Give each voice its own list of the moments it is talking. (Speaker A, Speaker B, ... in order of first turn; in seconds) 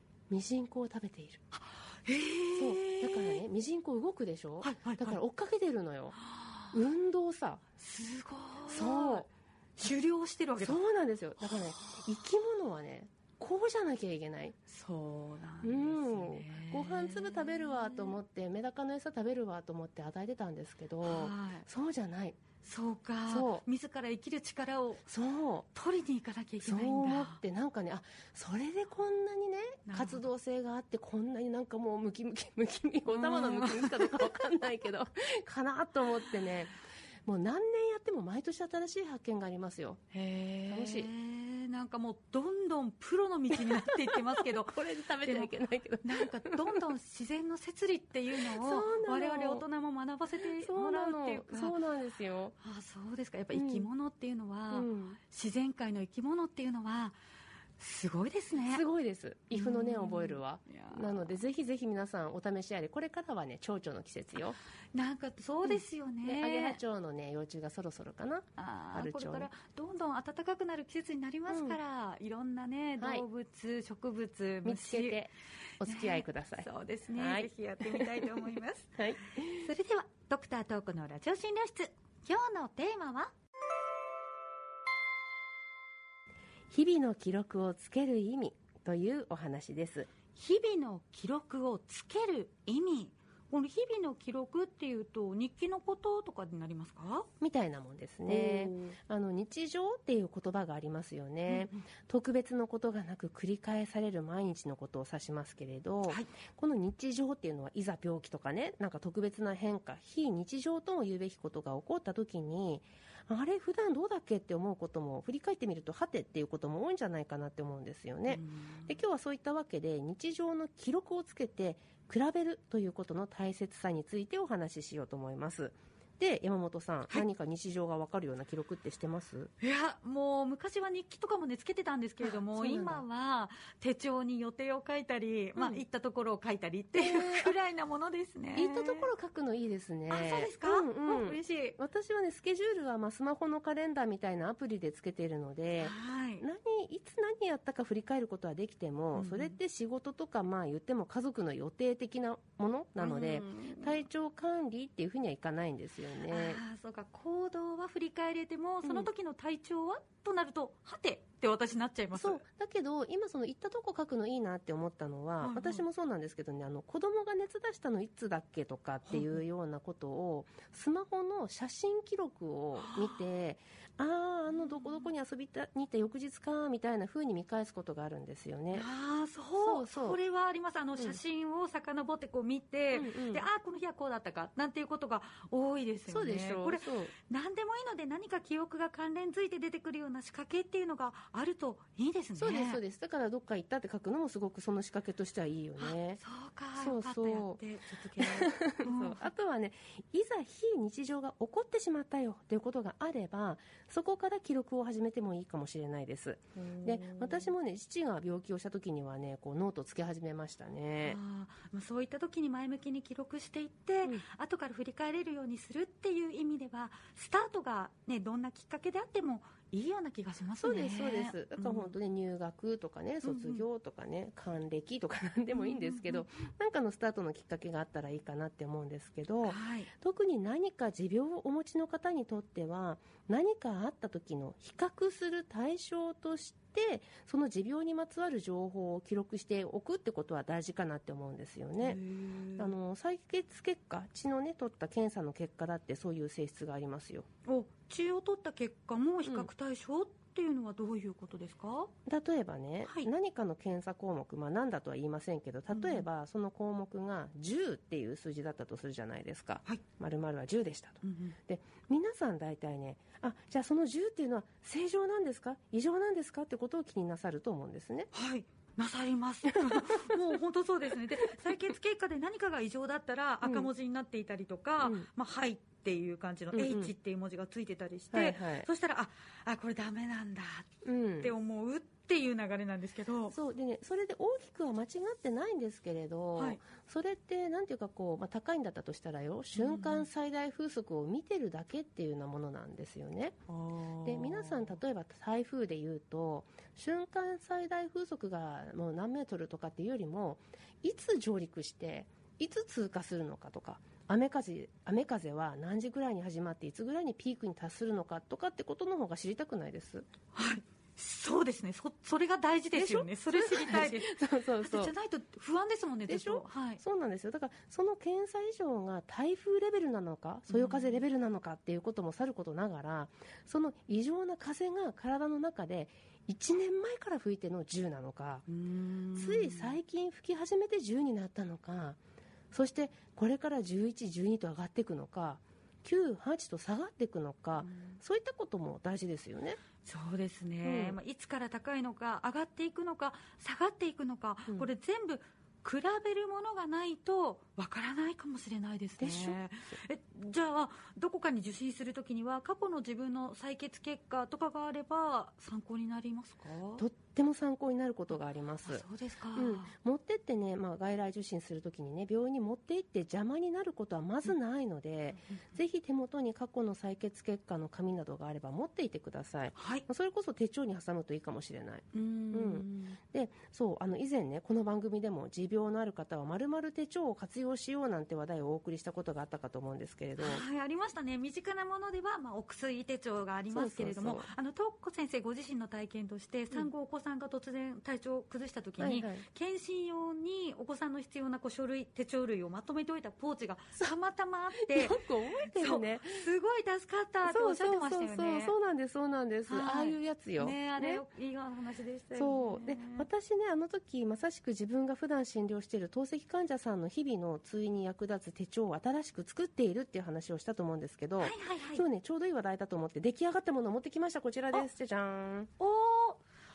Speaker A: 0.3-1.4, 2.6-6.2, 6.7-7.6, 8.7-9.3, 10.6-14.6, 15.6-22.4, 23.3-23.6, 25.1-25.7, 26.6-40.0, 40.7-41.1, 43.5-46.8, 48.4-49.6, 50.6-52.5, 53.5-53.9, 54.7-55.2, 58.6-64.6, 65.6-69.5, 71.5-71.8, 73.0-73.2, 74.6-79.6, 86.7-90.1, 97.4-129.5, 132.2-133.0, 135.6-135.8, 137.0-137.5, 138.5-156.6, 162.1-178.8, 179.6-180.2, 182.9-183.4, 186.1-187.1, 192.3-196.2, 196.8-197.6, 198.2-211.2, 220.6-242.0, 242.6-247.3, 252.1-268.1, 269.5-270.1, 271.2-271.5, 273.4-273.7, 274.8-275.1, 276.5-276.9, 278.1-278.7, 280.8-281.3, 283.3-293.4, 294.0-310.1, 312.7-314.9, 316.1-328.4, 329.1-332.0, 332.5-339.6, 340.6-341.0, 349.0-349.4, 356.8-380.4, 383.5-384.3, 388.8-389.2, 394.6-396.3, 397.2-401.0, 402.1-415.5
Speaker B: 1.5-3.4, 4.6-5.2, 6.2-6.8, 7.8-10.8, 14.7-18.2, 21.0-21.7, 22.6-25.0, 25.7-27.4, 29.9-30.2, 33.1-34.3, 40.1-45.5, 46.0-51.8, 52.6-57.2, 57.8-58.8, 59.5-61.4, 64.9-66.8, 68.6-75.2, 75.8-83.3, 90.3-97.3, 98.3-99.0, 101.5-101.8, 118.3-119.0, 129.6-139.1, 140.1-141.8, 145.8-146.4, 149.1-149.6, 153.0-154.0, 156.3-162.4, 165.4-165.8, 169.1-169.4, 172.8-173.2, 174.5-175.1, 178.7-192.8, 195.8-199.3, 206.6-207.5, 211.0-221.9, 223.2-223.6, 225.5-226.2, 229.4-229.9, 241.8-242.7, 247.4-251.9, 252.8-253.1, 255.7-256.0, 261.0-261.4, 268.1-283.3, 289.5-290.1, 293.5-294.8, 310.3-316.8, 320.5-321.0, 328.5-329.8, 337.6-338.0, 339.8-356.8, 358.6-359.7, 369.6-369.8, 371.9-373.0, 380.2-398.5, 399.5-403.1, 411.2-411.9, 415.6-416.2